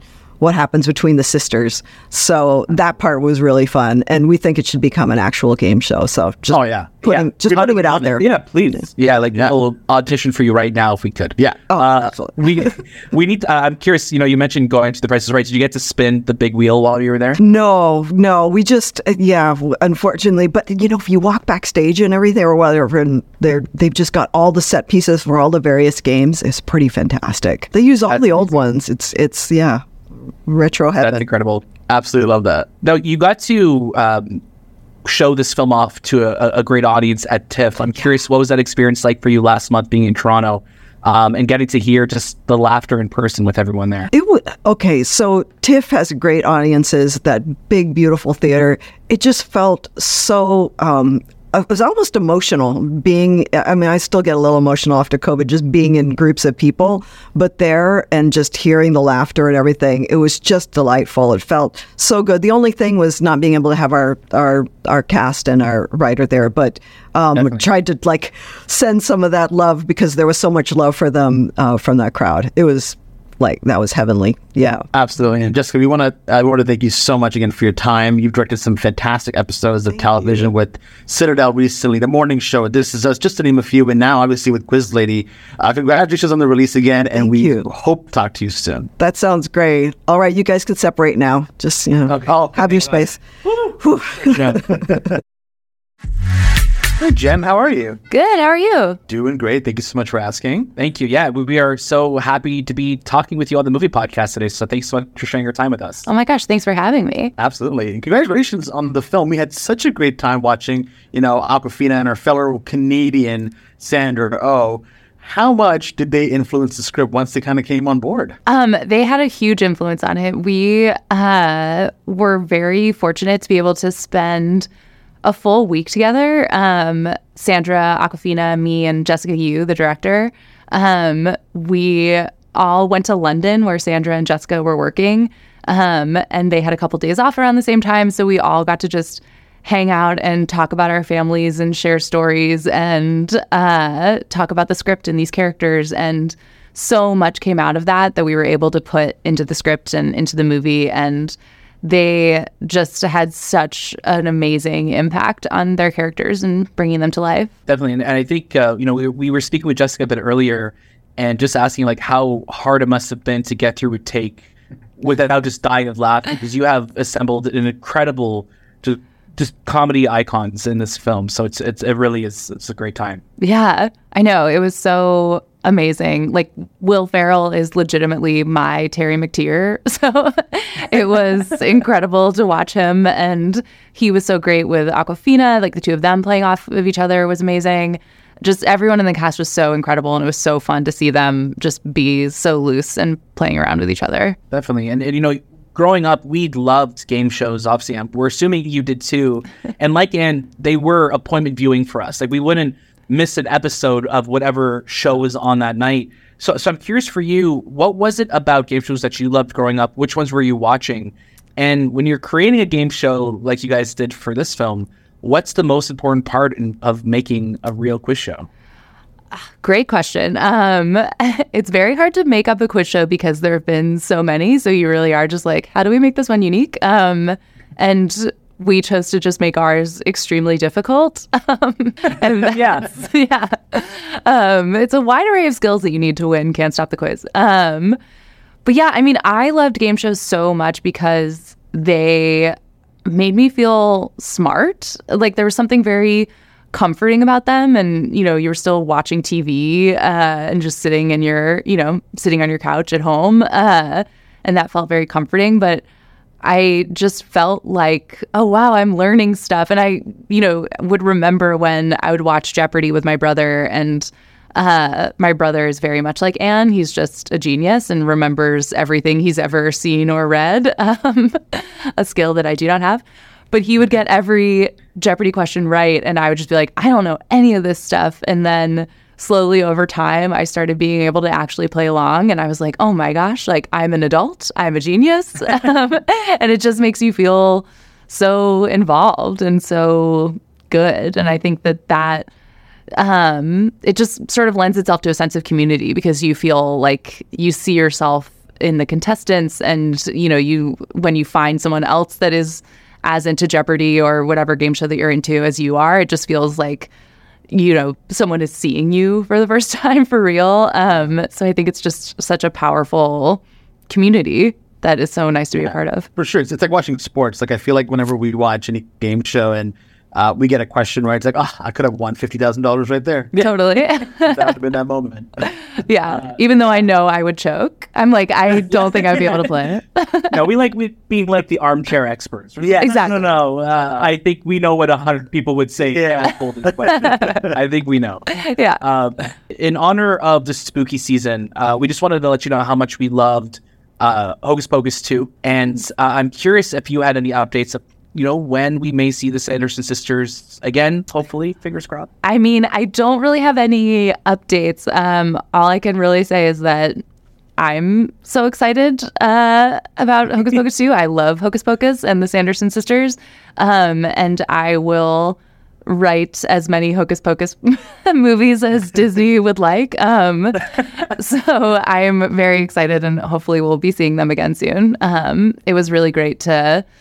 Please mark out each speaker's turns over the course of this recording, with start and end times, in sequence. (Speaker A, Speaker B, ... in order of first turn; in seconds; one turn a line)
Speaker A: 0.4-8.3
Speaker B: 6.5-7.5
Speaker C: 6.8-17.4
Speaker A: 11.7-12.6
Speaker A: 17.4-29.8
Speaker A: 30.4-31.2
Speaker C: 31.0-31.7
Speaker B: 31.8-32.7
Speaker C: 32.8-34.4
Speaker C: 35.0-44.1
Speaker A: 44.1-74.8
Speaker B: 67.3-67.7
Speaker B: 74.9-88.9
Speaker A: 87.1-87.7
Speaker A: 89.0-95.0
Speaker C: 92.1-92.5
Speaker B: 92.3-92.8
Speaker C: 94.2-94.7
Speaker B: 97.0-98.0
Speaker D: 98.1-99.0
Speaker B: 99.1-100.7
Speaker C: 100.7-106.0
Speaker D: 106.0-107.3
Speaker B: 107.4-118.3
Speaker D: 118.5-124.7
Speaker D: 125.2-157.5
Speaker C: 157.7-164.5
Speaker C: 165.0-173.2
Speaker D: 173.4-194.4
Speaker C: 194.5-218.5
Speaker D: 219.6-238.0
Speaker D: 238.6-242.5
Speaker D: 243.1-255.8
Speaker D: 256.4-292.3
Speaker D: 293.0-306.9
Speaker D: 307.5-316.1
Speaker B: 316.2-323.5
Speaker D: 323.3-324.5
Speaker B: 324.2-325.3
Speaker D: 325.6-330.4
Speaker C: 330.3-352.1
Speaker B: 332.6-333.1
Speaker D: 332.8-333.2
Speaker B: 335.9-337.4
Speaker D: 338.4-338.8
Speaker D: 352.2-357.0
Speaker D: 357.6-376.8